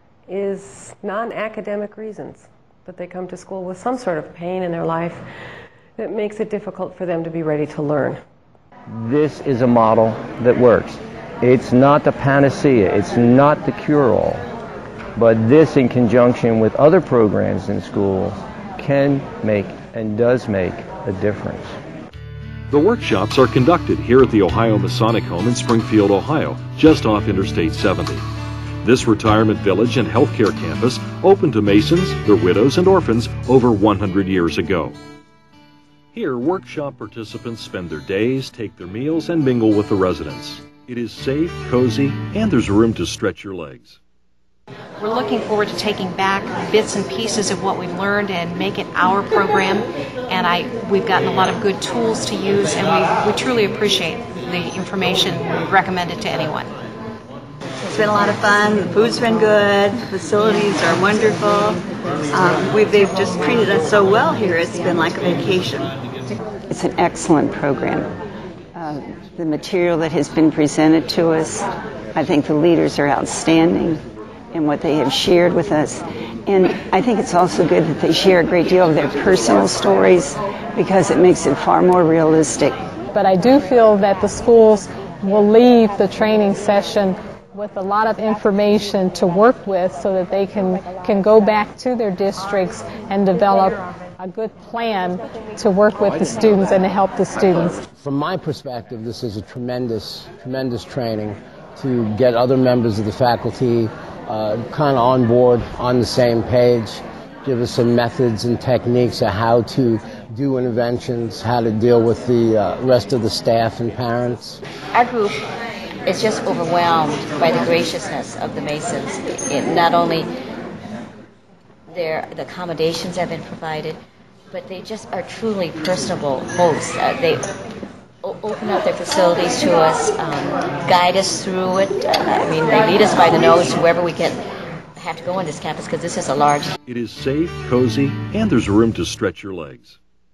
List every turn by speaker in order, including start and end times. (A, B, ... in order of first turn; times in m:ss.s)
0:00.3-0:05.2 A
0:06.0-0:08.2 A
0:08.9-0:14.4 B
0:15.2-0:21.8 B
0:22.7-0:28.3 C
0:28.8-0:35.0 C
0:36.1-0:44.0 C
0:45.0-0:56.7 D
0:57.8-1:06.0 E
1:06.7-1:08.1 F
1:08.7-1:22.8 F
1:23.1-1:37.8 G
1:37.9-1:54.6 H
1:54.9-1:55.4 I
1:56.0-2:00.3 I
2:01.9-2:04.0 I
2:04.5-2:07.4 I
2:08.2-2:14.4 I
2:15.0-2:16.7 I
2:16.8-2:20.0 C